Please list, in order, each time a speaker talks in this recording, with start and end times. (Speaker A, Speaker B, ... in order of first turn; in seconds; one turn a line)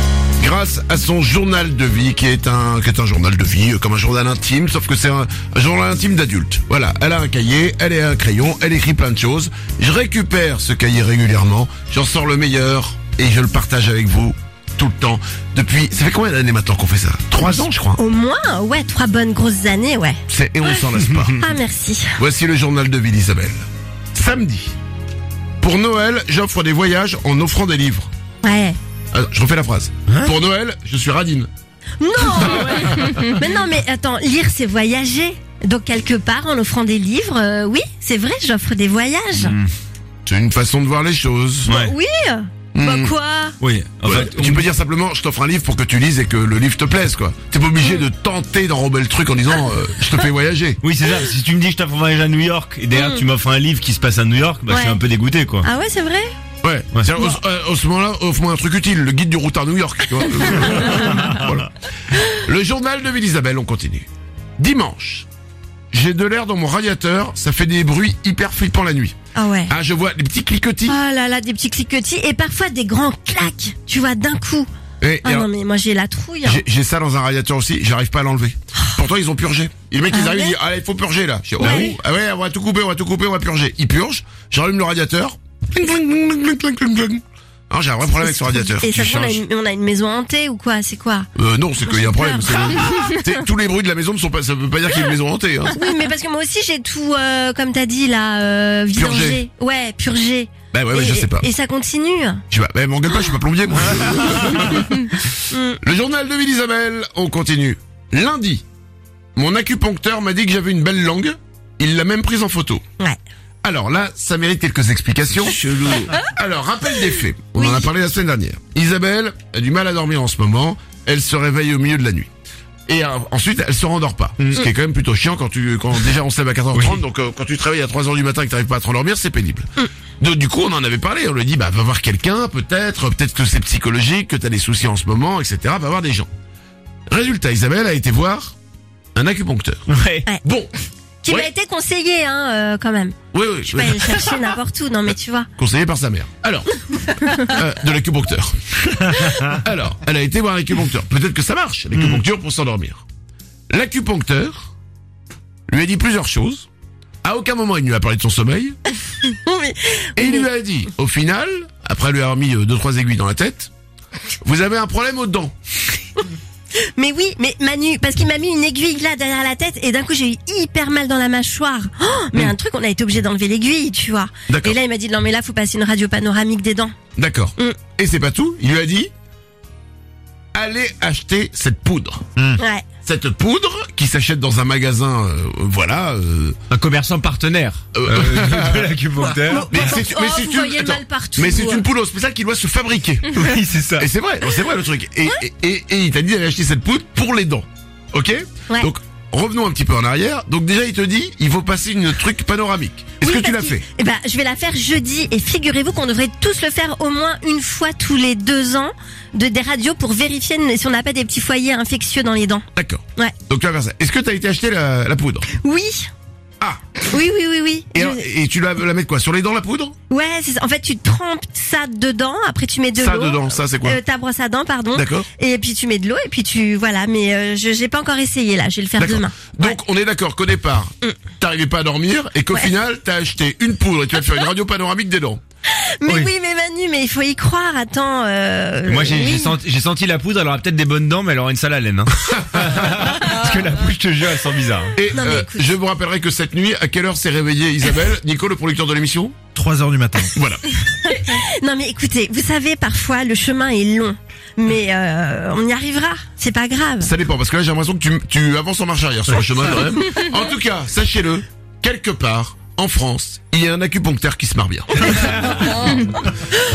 Speaker A: 0.4-18.0
Speaker B: 17.9-20.8
Speaker A: 20.3-21.4
Speaker B: 21.4-22.2
Speaker A: 22.2-24.7
Speaker A: 25.6-28.1
Speaker B: 28.4-28.8
Speaker A: 29.1-31.5
Speaker B: 32.0-39.5
Speaker A: 32.3-33.0
Speaker C: 39.4-39.7
Speaker A: 40.2-41.7
Speaker B: 41.7-43.6
Speaker C: 41.7-41.9
Speaker A: 42.7-43.1
Speaker C: 43.6-44.7
Speaker A: 44.0-50.8
Speaker C: 50.8-55.7
Speaker B: 52.9-53.2
Speaker B: 54.7-55.0
Speaker B: 55.6-56.3
Speaker A: 56.6-61.7
Speaker A: 62.2-64.1
Speaker A: 64.6-65.3
Speaker A: 65.9-69.2
Speaker B: 69.3-69.7
Speaker A: 69.7-71.0
Speaker B: 70.9-74.7
Speaker A: 75.0-75.5
Speaker B: 75.2-76.6
Speaker A: 76.4-89.4
Speaker B: 78.8-79.0
Speaker B: 80.1-80.6
Speaker B: 81.6-81.9
Speaker B: 88.3-91.3
Speaker A: 91.3-95.8
Speaker B: 91.8-93.3
Speaker B: 95.7-102.4
Speaker A: 98.9-99.4
Speaker A: 100.7-101.5
Speaker A: 102.5-108.6
Speaker B: 105.5-105.8
Speaker A: 109.3-112.8
Speaker A: 113.6-122.3
Speaker B: 117.5-117.9
Speaker A: 122.9-129.7
Speaker C: 126.7-127.0
Speaker A: 130.2-136.3
Speaker A: 137.1-138.5
Speaker A: 139.1-139.8
Speaker C: 139.9-140.2
Speaker A: 140.4-140.7
Speaker B: 141.2-145.5
Speaker A: 143.3-144.3
Speaker A: 145.6-146.7
Speaker B: 147.1-147.5
Speaker A: 147.3-153.0
Speaker A: 153.7-154.7
Speaker A: 155.7-156.7
Speaker A: 157.2-158.8
Speaker B: 159.2-160.4
Speaker A: 160.2-163.7
Speaker A: 164.4-165.5
Speaker B: 166.9-176.9
Speaker A: 174.5-174.8
Speaker A: 177.2-179.1
Speaker A: 180.5-182.2
Speaker B: 182.6-182.8
Speaker A: 183.0-186.6
Speaker C: 186.7-189.7
Speaker A: 187.9-188.9
Speaker B: 189.4-191.9
Speaker A: 189.7-193.4
Speaker C: 193.3-194.1
Speaker A: 194.0-203.8
Speaker B: 203.2-213.3
Speaker A: 212.7-215.4
Speaker B: 215.5-216.1
Speaker A: 216.6-216.8
Speaker B: 217.1-218.2
Speaker A: 217.9-219.9
Speaker B: 220.1-229.8
Speaker A: 222.9-224.0
Speaker A: 224.9-225.3
Speaker A: 229.0-235.4
Speaker B: 235.7-239.6
Speaker C: 238.8-244.9
Speaker A: 245.0-249.4
Speaker B: 245.1-245.7
Speaker C: 249.5-250.3
Speaker A: 250.3-250.6
Speaker B: 250.9-257.1
Speaker A: 257.0-265.9